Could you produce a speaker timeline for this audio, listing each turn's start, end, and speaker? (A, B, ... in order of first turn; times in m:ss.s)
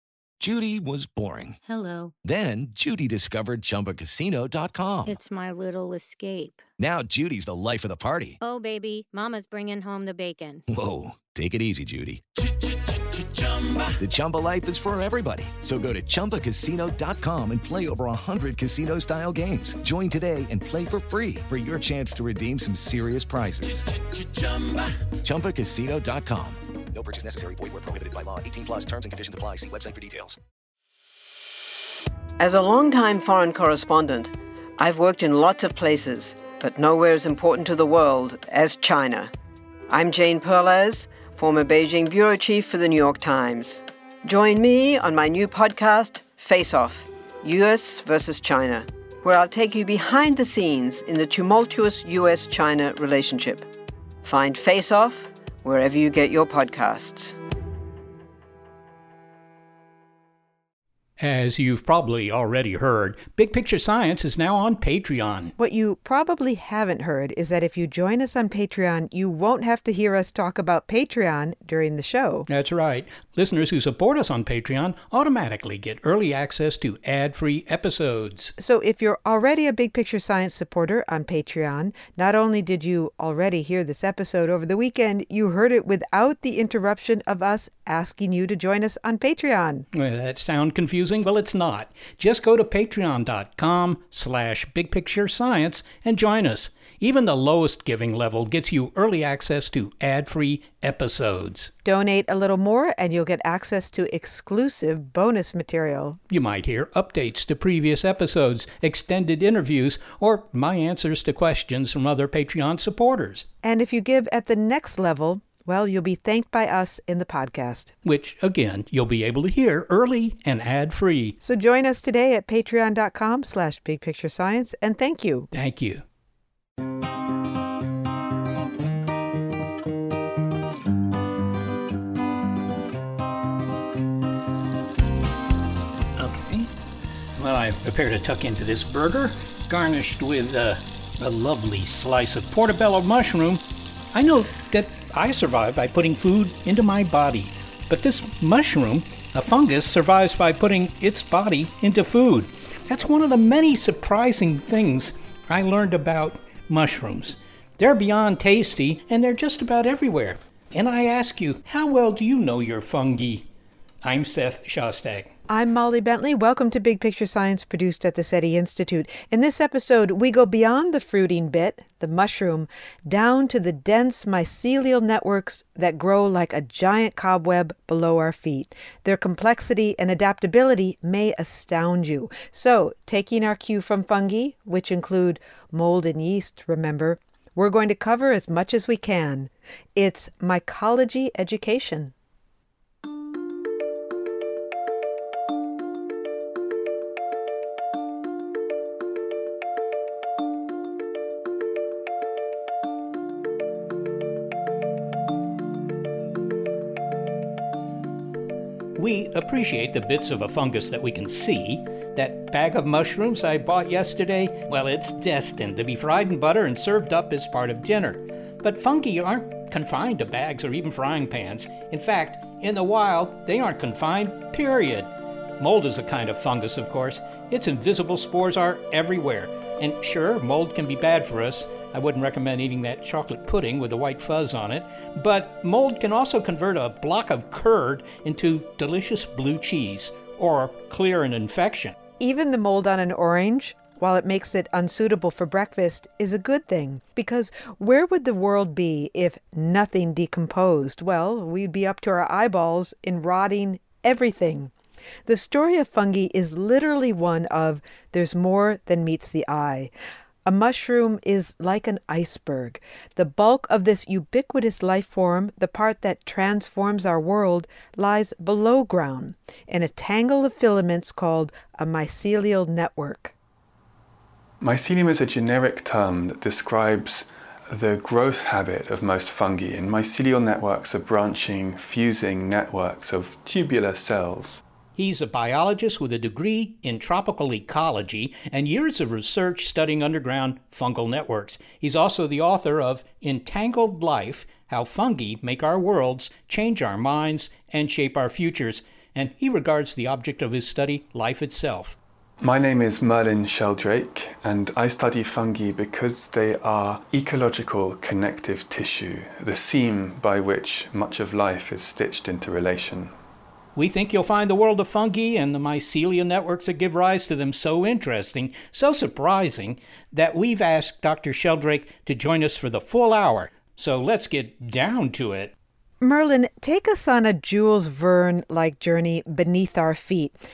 0:00.4-0:01.6 A
0:01.6-0:02.1 B
0:02.2-0:05.2 A
0:05.1-0:06.6 B
0:06.8-0:08.4 A
0:08.4-0:10.6 B
0:10.7-0:12.2 A
0:13.4-0:13.7 B
0:14.0-0:24.0 A
0:25.2-0:30.4 A
0:32.4-0:39.3 C
0:39.9-0:53.7 C
0:54.2-0:57.4 C
1:01.2-1:05.5 D
1:05.6-1:12.5 E
1:12.5-1:18.5 D
1:18.6-1:29.9 E
1:29.9-1:41.7 D
1:41.8-1:46.2 E
1:46.3-1:53.5 D
1:53.6-1:57.9 E
1:58.0-2:01.4 D
2:01.4-2:05.5 E
2:05.5-2:06.0 D
2:16.2-2:16.7 D
2:17.4-2:23.6 D
2:24.1-2:43.5 D
2:44.0-2:45.3 D
2:45.5-3:12.1 E
3:29.0-4:02.0 D
4:02.2-4:14.7 E
4:15.3-4:19.9 E
4:20.4-4:33.3 E
4:34.6-4:44.6 F
4:45.0-5:02.0 D
5:02.4-5:13.1 F
5:13.8-5:25.5 D
5:26.0-5:30.4 E